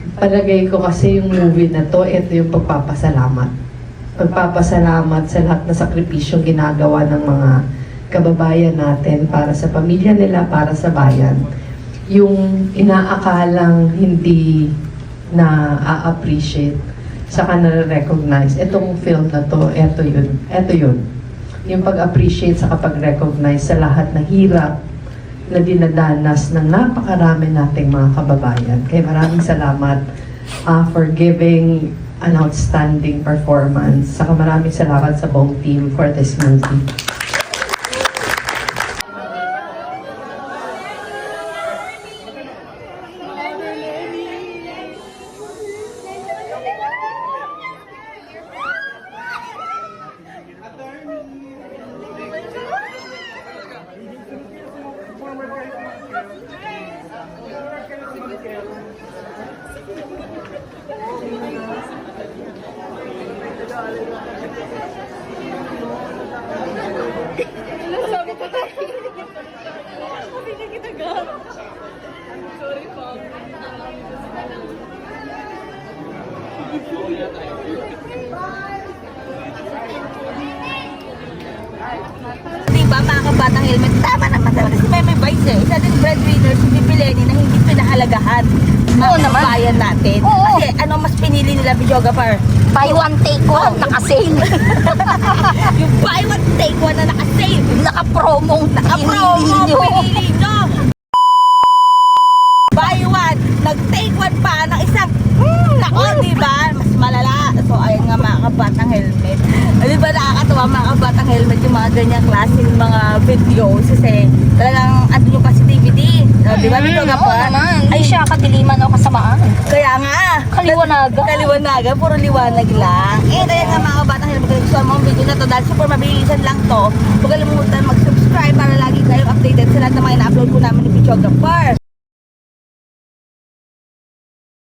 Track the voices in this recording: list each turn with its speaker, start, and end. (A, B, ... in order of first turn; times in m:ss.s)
0:00.2-0:03.5 A
0:04.2-0:07.5 A
0:08.1-0:11.4 A
0:12.1-0:14.7 A
0:15.4-0:16.8 A
0:17.3-0:21.0 A
0:21.6-0:24.7 A
0:25.5-0:30.0 A
0:30.7-0:36.8 A
1:22.7-1:33.0 B
1:29.0-1:29.6 C
1:30.2-1:30.6 C
1:32.8-1:35.7 C
1:33.6-1:34.0 B
1:34.6-1:37.8 B
1:37.8-1:40.2 C
1:38.8-1:40.8 B
1:42.7-1:58.2 B
1:46.0-1:46.2 C
1:56.5-1:59.6 C
1:59.7-2:11.8 B
2:00.5-2:01.5 C
2:03.3-2:03.9 C